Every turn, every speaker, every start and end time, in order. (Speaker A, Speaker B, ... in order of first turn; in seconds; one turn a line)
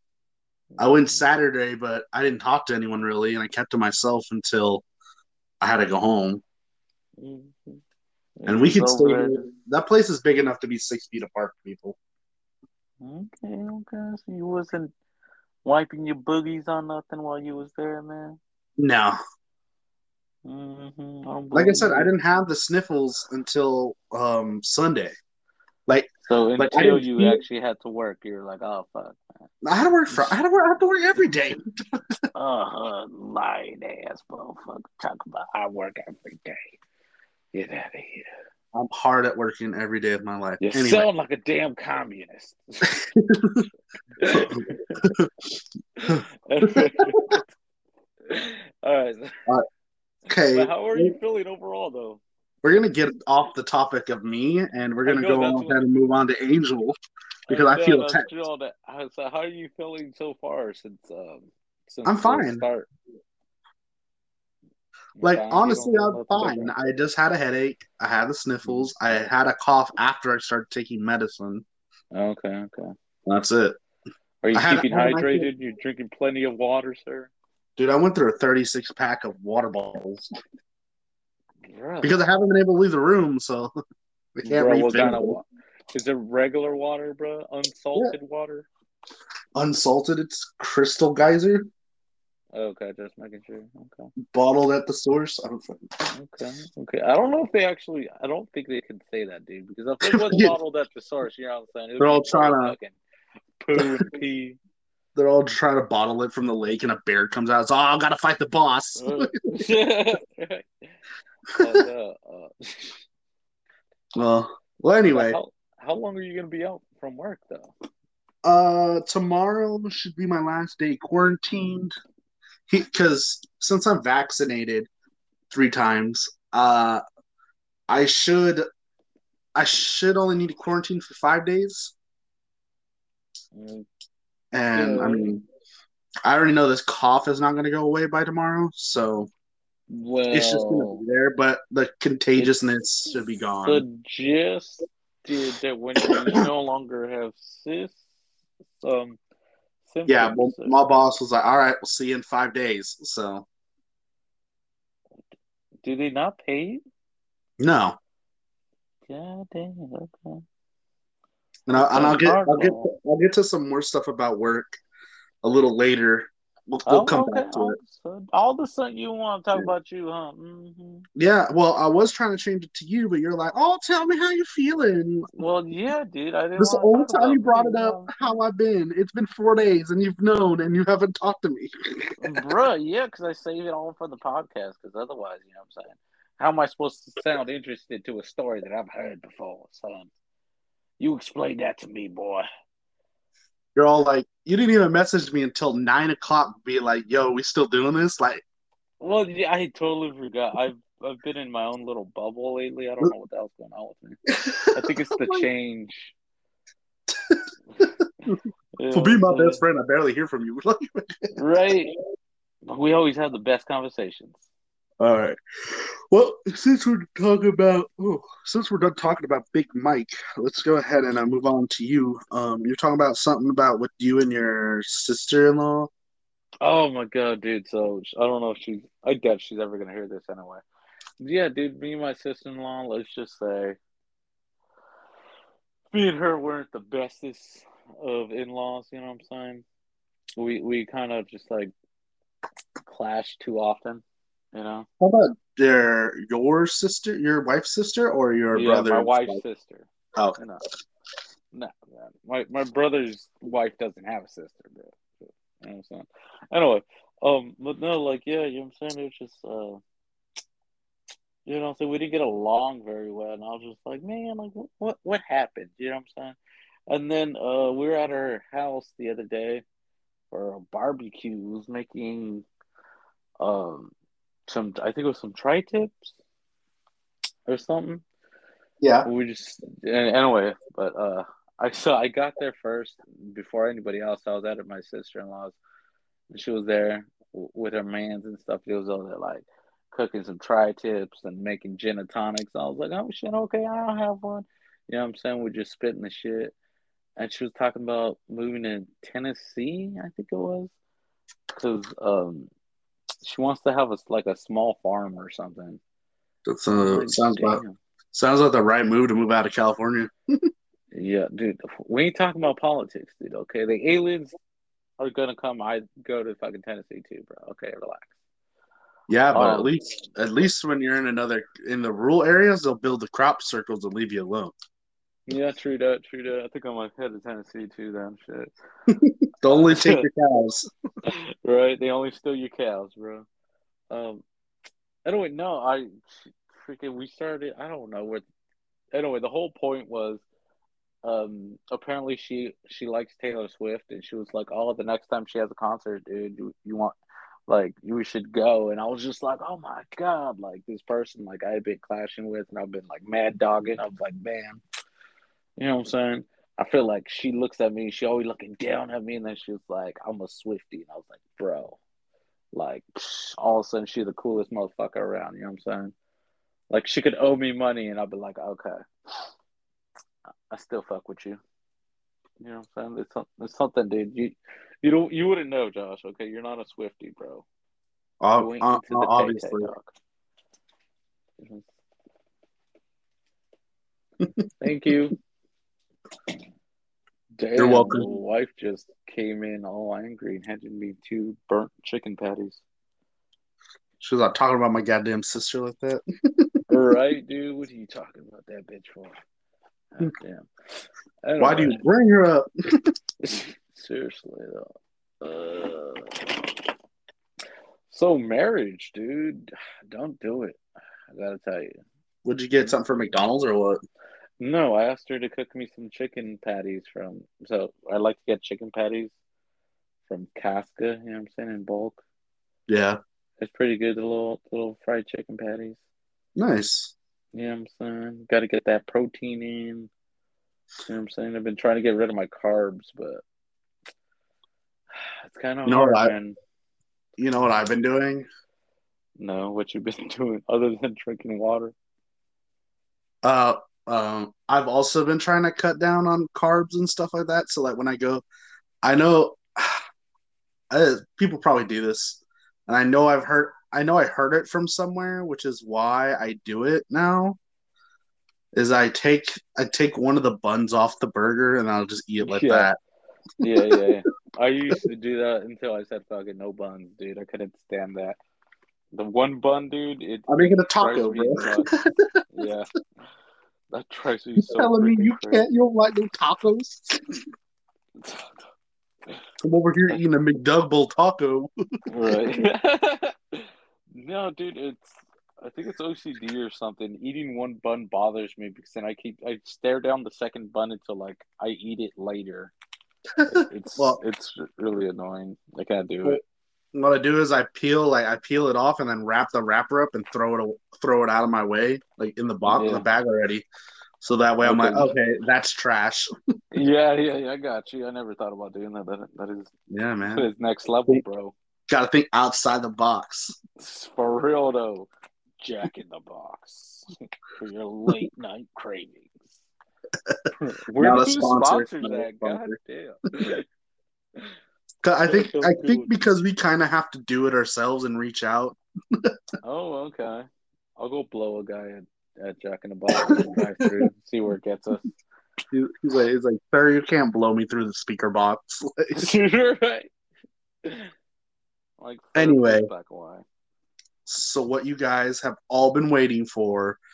Speaker A: 0.7-1.2
Speaker B: 0.8-4.8
Speaker B: 5.6-6.4
Speaker A: 7.2-7.8
Speaker A: 8.4-9.5
Speaker B: 8.5-12.0
Speaker A: 13.0-14.9
Speaker A: 15.6-18.4
Speaker B: 18.8-19.2
Speaker A: 20.4-22.1
Speaker B: 21.5-25.1
Speaker B: 25.9-27.4
Speaker A: 26.2-29.2
Speaker B: 29.6-31.8
Speaker A: 30.1-30.4
Speaker A: 32.3-36.7
Speaker A: 37.5-38.3
Speaker B: 38.7-41.1
Speaker A: 40.6-43.0
Speaker B: 43.1-43.7
Speaker A: 44.2-45.0
Speaker B: 44.3-45.5
Speaker A: 46.0-47.5
Speaker B: 46.1-46.9
Speaker A: 48.3-49.4
Speaker B: 50.3-51.1
Speaker A: 50.3-52.2
Speaker B: 52.6-57.0
Speaker A: 55.0-55.8
Speaker B: 57.5-58.3
Speaker A: 57.5-62.9
Speaker B: 62.0-62.6
Speaker A: 65.2-66.8
Speaker B: 65.2-71.6
Speaker A: 68.6-68.9
Speaker A: 72.1-72.9
Speaker B: 73.2-73.8
Speaker A: 74.4-77.3
Speaker B: 74.5-75.5
Speaker B: 77.8-80.3
Speaker A: 81.6-82.2
Speaker B: 82.0-83.7
Speaker B: 84.4-85.4
Speaker A: 84.5-88.7
Speaker B: 89.5-91.7
Speaker A: 92.5-94.1
Speaker B: 94.3-95.8
Speaker A: 96.1-103.0
Speaker B: 100.0-100.5
Speaker B: 102.0-102.7
Speaker A: 103.6-104.6
Speaker B: 103.8-104.1
Speaker B: 105.2-109.6
Speaker A: 109.0-110.9
Speaker A: 111.5-113.0
Speaker B: 114.2-115.4
Speaker A: 115.1-117.7
Speaker B: 118.4-121.9
Speaker B: 122.7-124.9
Speaker B: 125.5-127.0
Speaker B: 127.9-128.6
Speaker B: 129.5-131.9
Speaker A: 133.5-133.9
Speaker B: 134.5-135.4
Speaker A: 134.7-135.3
Speaker B: 136.2-139.3
Speaker A: 139.9-141.0
Speaker B: 140.3-143.8
Speaker A: 143.6-148.0
Speaker B: 146.0-146.4
Speaker A: 148.7-149.2
Speaker A: 149.8-150.8
Speaker B: 150.1-153.4
Speaker A: 155.8-156.8
Speaker B: 157.6-158.0
Speaker A: 159.1-160.4
Speaker B: 161.7-164.8
Speaker A: 161.7-162.9
Speaker B: 165.4-167.8
Speaker A: 166.8-171.0
Speaker B: 171.2-175.4
Speaker A: 175.4-178.3
Speaker B: 176.6-182.1
Speaker A: 182.2-190.1
Speaker A: 191.0-192.5
Speaker B: 193.7-198.4
Speaker A: 199.0-204.2
Speaker B: 204.4-205.4
Speaker A: 204.7-206.1
Speaker B: 207.1-208.4
Speaker A: 208.8-209.6
Speaker B: 208.9-211.2
Speaker A: 211.3-212.0
Speaker A: 212.7-214.4
Speaker B: 215.0-225.9
Speaker A: 226.6-230.6
Speaker A: 231.2-233.8
Speaker A: 235.9-239.6
Speaker A: 240.4-241.7
Speaker A: 242.8-244.0
Speaker A: 244.5-244.9
Speaker B: 245.0-249.4
Speaker A: 248.5-250.6
Speaker A: 251.5-259.8
Speaker A: 261.4-266.4
Speaker A: 266.9-269.6
Speaker A: 270.3-272.4
Speaker A: 273.4-273.9
Speaker A: 274.5-276.1
Speaker A: 277.4-278.0
Speaker B: 278.8-279.1
Speaker A: 279.0-285.6
Speaker A: 286.3-296.5
Speaker A: 297.2-300.7
Speaker A: 301.5-302.5
Speaker A: 303.2-305.8
Speaker B: 306.4-307.6
Speaker A: 306.7-307.7
Speaker B: 308.1-310.1
Speaker A: 310.9-314.4
Speaker A: 315.0-318.1
Speaker B: 319.1-324.5
Speaker A: 319.3-319.7
Speaker A: 325.3-328.5
Speaker B: 328.9-330.7
Speaker A: 329.5-330.0
Speaker A: 331.0-333.2
Speaker A: 333.9-334.2
Speaker A: 335.0-338.2
Speaker A: 338.9-340.2
Speaker A: 341.0-346.9
Speaker A: 347.5-354.6
Speaker A: 355.6-361.8
Speaker A: 362.5-365.9
Speaker A: 366.7-369.3
Speaker A: 370.5-371.4
Speaker A: 372.4-377.4
Speaker B: 378.2-379.7
Speaker A: 378.4-379.9
Speaker A: 381.4-381.7
Speaker A: 384.6-385.1
Speaker A: 387.4-392.6
Speaker B: 387.6-388.1
Speaker B: 394.0-396.6
Speaker A: 396.7-399.1
Speaker A: 399.9-400.4
Speaker A: 401.2-401.8
Speaker B: 401.4-402.5
Speaker A: 403.2-404.7
Speaker A: 405.2-406.3
Speaker A: 407.9-410.6
Speaker A: 411.1-411.8
Speaker B: 412.2-413.8
Speaker A: 414.4-419.1
Speaker A: 420.1-422.0
Speaker B: 422.7-423.0
Speaker A: 423.4-425.8
Speaker B: 426.4-426.9
Speaker A: 427.3-429.9
Speaker A: 430.9-433.2
Speaker A: 435.0-436.4
Speaker B: 435.6-436.1
Speaker B: 437.2-438.3
Speaker A: 439.2-441.7
Speaker B: 443.2-448.2
Speaker B: 448.8-449.8
Speaker B: 450.7-457.4
Speaker B: 458.5-462.8
Speaker A: 462.2-462.7
Speaker A: 463.4-468.2
Speaker B: 463.6-463.9
Speaker A: 468.9-471.7
Speaker B: 470.3-471.9
Speaker A: 472.3-472.7
Speaker A: 473.7-475.4
Speaker B: 474.4-476.9
Speaker A: 478.0-478.3
Speaker B: 479.4-481.5
Speaker A: 481.9-492.5
Speaker B: 493.2-494.0
Speaker A: 493.3-496.2
Speaker B: 496.7-503.4
Speaker A: 502.5-502.9
Speaker B: 504.0-506.1
Speaker A: 504.4-504.9
Speaker A: 506.5-509.5
Speaker B: 509.7-510.3
Speaker A: 510.1-511.3
Speaker B: 511.7-513.4
Speaker A: 513.6-519.4
Speaker B: 520.0-522.6
Speaker A: 520.4-523.5
Speaker B: 524.8-529.1
Speaker A: 525.0-525.9
Speaker A: 529.4-534.9
Speaker B: 533.0-533.7
Speaker B: 535.5-539.0
Speaker A: 539.0-539.9
Speaker A: 540.6-540.9
Speaker A: 541.8-543.2
Speaker B: 542.1-542.7
Speaker B: 544.0-546.8